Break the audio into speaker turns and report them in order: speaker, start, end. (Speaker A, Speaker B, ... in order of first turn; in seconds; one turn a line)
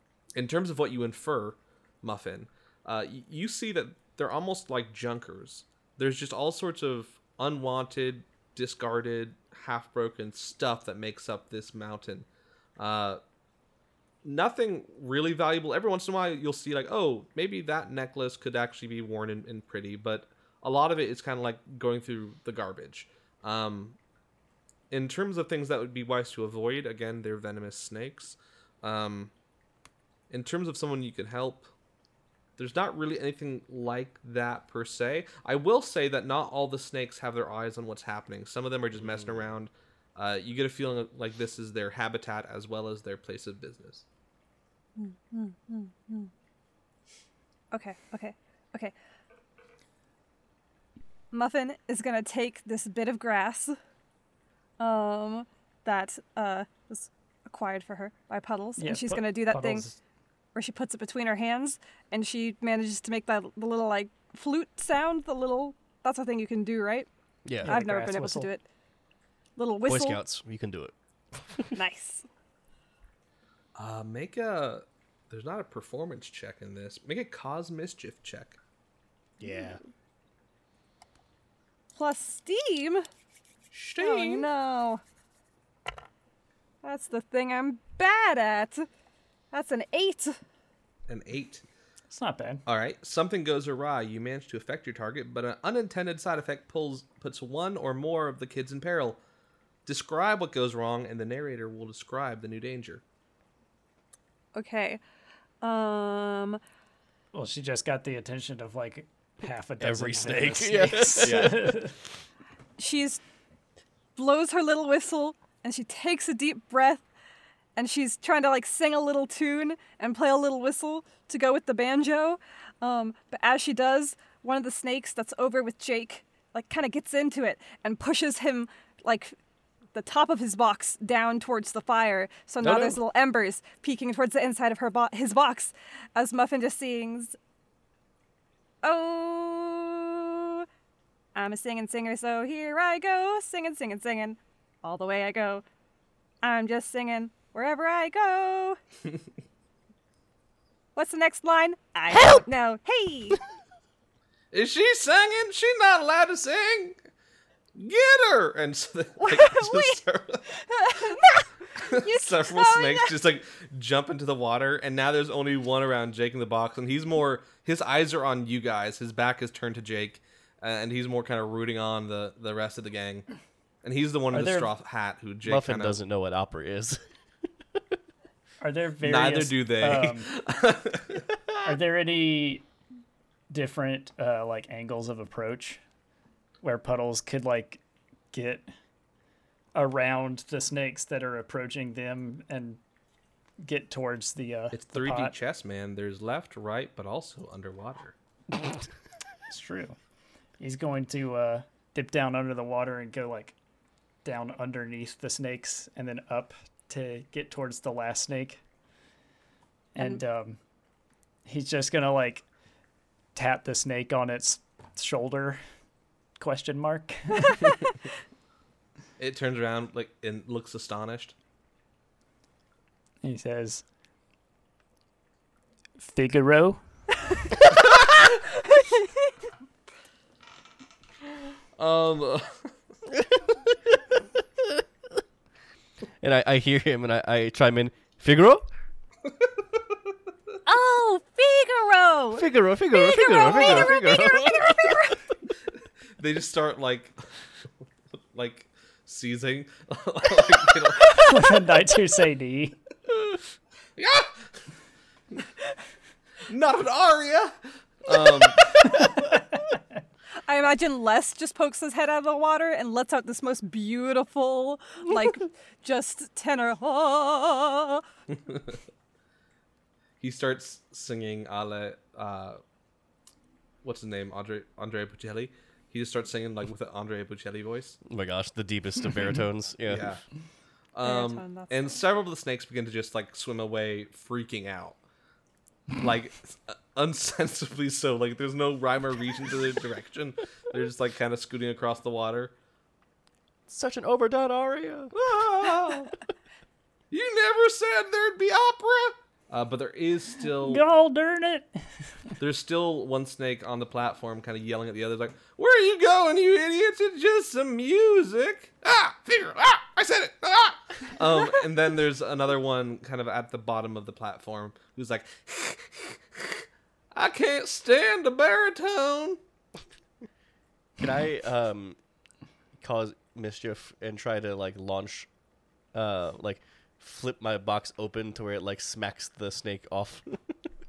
Speaker A: 0.4-13.2
Speaker A: 14.2-24.0
Speaker A: 24.9-29.3
Speaker A: 30.3-31.7
Speaker A: 32.6-44.0
Speaker B: 39.0-39.5
Speaker C: 45.0-46.3
Speaker C: 47.7-48.9
Speaker C: 51.3-53.8
Speaker C: 54.8-59.9
Speaker D: 58.8-60.0
Speaker C: 60.5-67.1
Speaker B: 67.5-67.8
Speaker D: 67.6-68.5
Speaker C: 67.6-68.7
Speaker C: 69.6-70.2
Speaker B: 69.9-71.7
Speaker C: 71.7-72.2
Speaker A: 73.8-78.6
Speaker C: 79.4-79.8
Speaker B: 79.5-79.8
Speaker C: 82.0-83.1
Speaker A: 83.7-84.5
Speaker C: 84.0-85.0
Speaker C: 86.8-88.9
Speaker C: 89.5-90.4
Speaker A: 91.1-91.6
Speaker D: 92.1-92.6
Speaker A: 92.7-99.2
Speaker A: 99.9-103.0
Speaker C: 104.5-105.0
Speaker C: 105.6-106.6
Speaker D: 107.3-111.9
Speaker B: 109.8-111.9
Speaker C: 112.8-113.2
Speaker C: 114.2-117.0
Speaker C: 117.8-129.3
Speaker C: 129.9-137.4
Speaker B: 132.6-133.0
Speaker C: 138.8-140.7
Speaker C: 141.3-145.6
Speaker C: 146.4-148.8
Speaker C: 151.0-153.4
Speaker B: 152.1-152.4
Speaker A: 154.5-157.0
Speaker A: 157.8-160.4
Speaker C: 159.2-163.2
Speaker A: 161.8-173.3
Speaker A: 173.8-176.0
Speaker D: 174.3-174.7
Speaker B: 175.5-177.0
Speaker D: 178.6-180.3
Speaker A: 179.0-181.2
Speaker D: 181.6-182.7
Speaker D: 183.5-185.8
Speaker D: 186.6-187.8
Speaker D: 188.3-188.7
Speaker D: 189.8-192.8
Speaker D: 193.6-195.3
Speaker A: 194.7-198.2
Speaker D: 199.5-200.0
Speaker D: 200.6-203.6
Speaker D: 204.2-208.6
Speaker D: 209.9-210.6
Speaker D: 211.5-212.4
Speaker D: 213.3-215.6
Speaker D: 216.4-217.7
Speaker A: 219.2-221.3
Speaker D: 223.2-223.8
Speaker D: 226.0-226.8
Speaker C: 228.0-229.3
Speaker A: 231.8-232.7
Speaker B: 236.2-238.7
Speaker C: 240.7-245.2
Speaker B: 242.3-245.2
Speaker A: 246.2-247.2
Speaker A: 248.3-251.3
Speaker C: 251.0-251.6
Speaker D: 251.1-252.8
Speaker A: 254.0-254.5
Speaker A: 256.5-258.9
Speaker D: 258.8-259.8
Speaker C: 260.4-268.0
Speaker A: 268.3-268.8
Speaker A: 270.2-272.6
Speaker A: 273.8-278.0
Speaker B: 278.1-280.1
Speaker A: 279.9-280.2
Speaker A: 280.9-285.0
Speaker C: 281.0-282.0
Speaker A: 286.0-292.5
Speaker B: 293.7-295.1
Speaker A: 295.1-296.1
Speaker A: 297.1-300.8
Speaker D: 300.6-301.8
Speaker A: 302.4-319.4
Speaker B: 321.0-322.0
Speaker B: 322.8-325.3
Speaker B: 325.9-330.6